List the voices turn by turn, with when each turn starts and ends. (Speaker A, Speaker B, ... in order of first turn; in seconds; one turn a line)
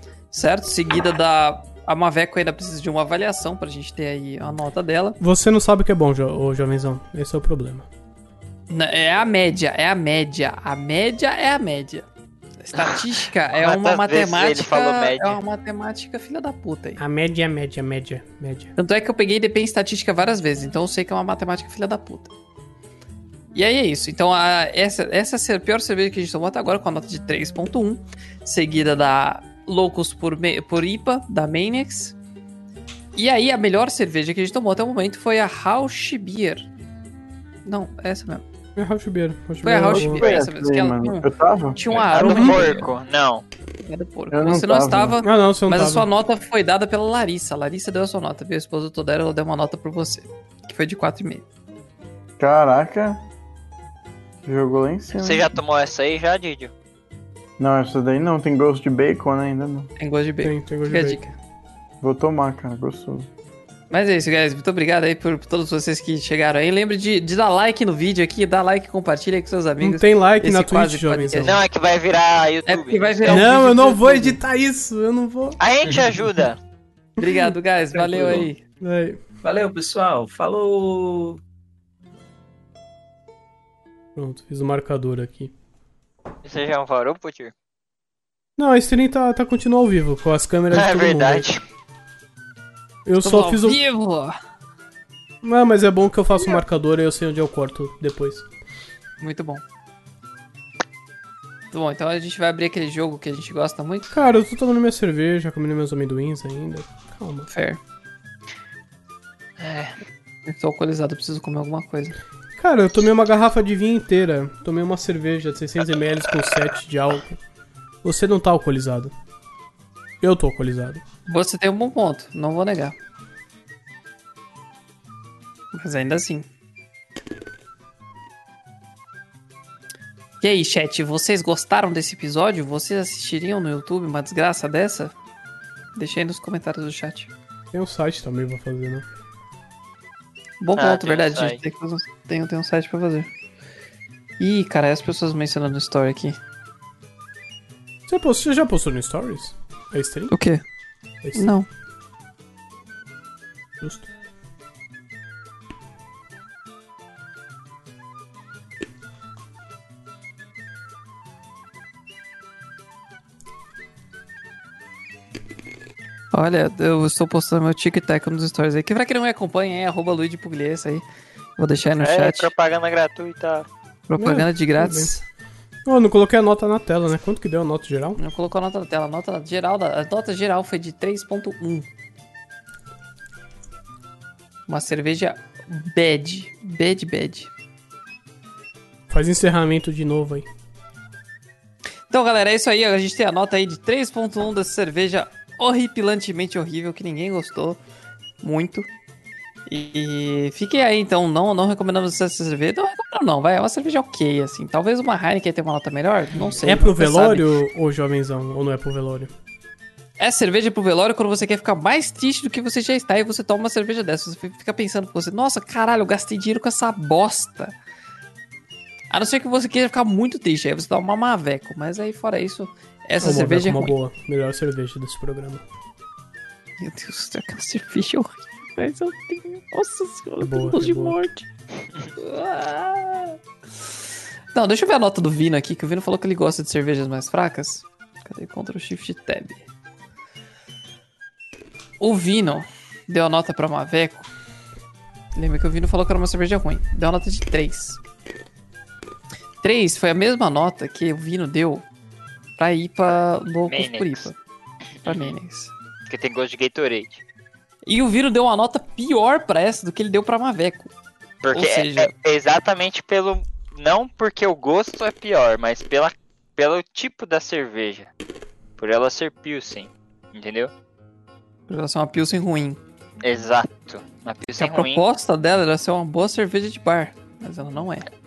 Speaker A: 0.3-5.2
Speaker B: 5.2-7.9
Speaker A: 8.7-12.1
Speaker A: 12.6-17.0
Speaker C: 13.5-15.4
Speaker B: 17.0-18.7
Speaker A: 18.8-22.3
Speaker A: 23.5-32.2
Speaker A: 33.1-36.7
Speaker A: 37.6-38.4
Speaker B: 38.8-40.2
Speaker A: 39.6-42.9
Speaker D: 39.9-41.8
Speaker E: 41.9-42.7
Speaker C: 42.0-43.5
Speaker B: 42.2-42.6
Speaker A: 43.8-51.4
Speaker D: 44.3-45.2
Speaker B: 45.2-46.1
Speaker D: 52.4-53.2
Speaker D: 54.5-55.6
Speaker C: 55.1-56.7
Speaker D: 57.6-59.9
Speaker A: 60.0-61.3
Speaker B: 60.4-61.3
Speaker D: 62.0-63.3
Speaker A: 63.9-71.6
Speaker B: 69.8-71.6
Speaker C: 71.4-73.5
Speaker A: 72.7-74.4
Speaker B: 73.3-75.6
Speaker C: 75.6-76.6
Speaker A: 77.2-78.6
Speaker B: 77.2-77.5
Speaker E: 78.0-78.5
Speaker B: 78.8-79.2
Speaker E: 79.4-81.4
Speaker B: 84.2-85.5
Speaker C: 86.5-87.5
Speaker B: 88.6-91.5
Speaker C: 90.7-91.6
Speaker B: 93.1-93.8
Speaker A: 93.2-94.4
Speaker B: 95.4-98.5
Speaker A: 99.2-99.6
Speaker A: 101.7-104.1
Speaker B: 104.1-107.5
Speaker A: 107.5-107.8
Speaker C: 109.6-109.9
Speaker A: 110.5-112.2
Speaker B: 112.6-117.4
Speaker B: 118.0-119.1
Speaker B: 120.2-121.0
Speaker A: 121.3-123.0
Speaker A: 125.7-126.5
Speaker A: 130.4-135.1
Speaker A: 135.9-137.3
Speaker B: 137.7-139.1
Speaker A: 140.6-143.3
Speaker C: 140.8-141.6
Speaker A: 144.4-146.4
Speaker B: 148.1-150.3
Speaker A: 150.3-150.6
Speaker B: 151.2-151.5
Speaker A: 151.3-151.7
Speaker B: 153.8-154.1
Speaker A: 166.3-171.1
Speaker A: 171.6-172.5
Speaker C: 172.0-173.7
Speaker A: 174.1-175.2
Speaker B: 174.2-175.1
Speaker B: 175.9-178.2
Speaker A: 178.2-181.9
Speaker A: 184.7-187.5
Speaker B: 189.1-190.5
Speaker A: 192.1-197.8
Speaker A: 198.4-198.9
Speaker A: 199.7-207.5
Speaker B: 206.6-209.3
Speaker A: 210.2-217.8
Speaker A: 219.1-223.9
Speaker B: 223.2-225.6
Speaker A: 226.8-231.5
Speaker B: 230.4-231.2
Speaker A: 232.2-233.4
Speaker A: 234.5-239.7
Speaker A: 242.0-244.3
Speaker A: 245.3-248.0
Speaker A: 249.6-251.9
Speaker A: 252.6-254.4
Speaker C: 253.7-254.3
Speaker C: 255.0-255.3
Speaker A: 255.1-255.7
Speaker C: 256.1-257.2
Speaker A: 257.9-260.9
Speaker C: 261.4-268.1
Speaker A: 261.5-262.1
Speaker C: 268.8-270.7
Speaker A: 271.7-272.8
Speaker C: 273.2-275.0
Speaker A: 274.6-278.1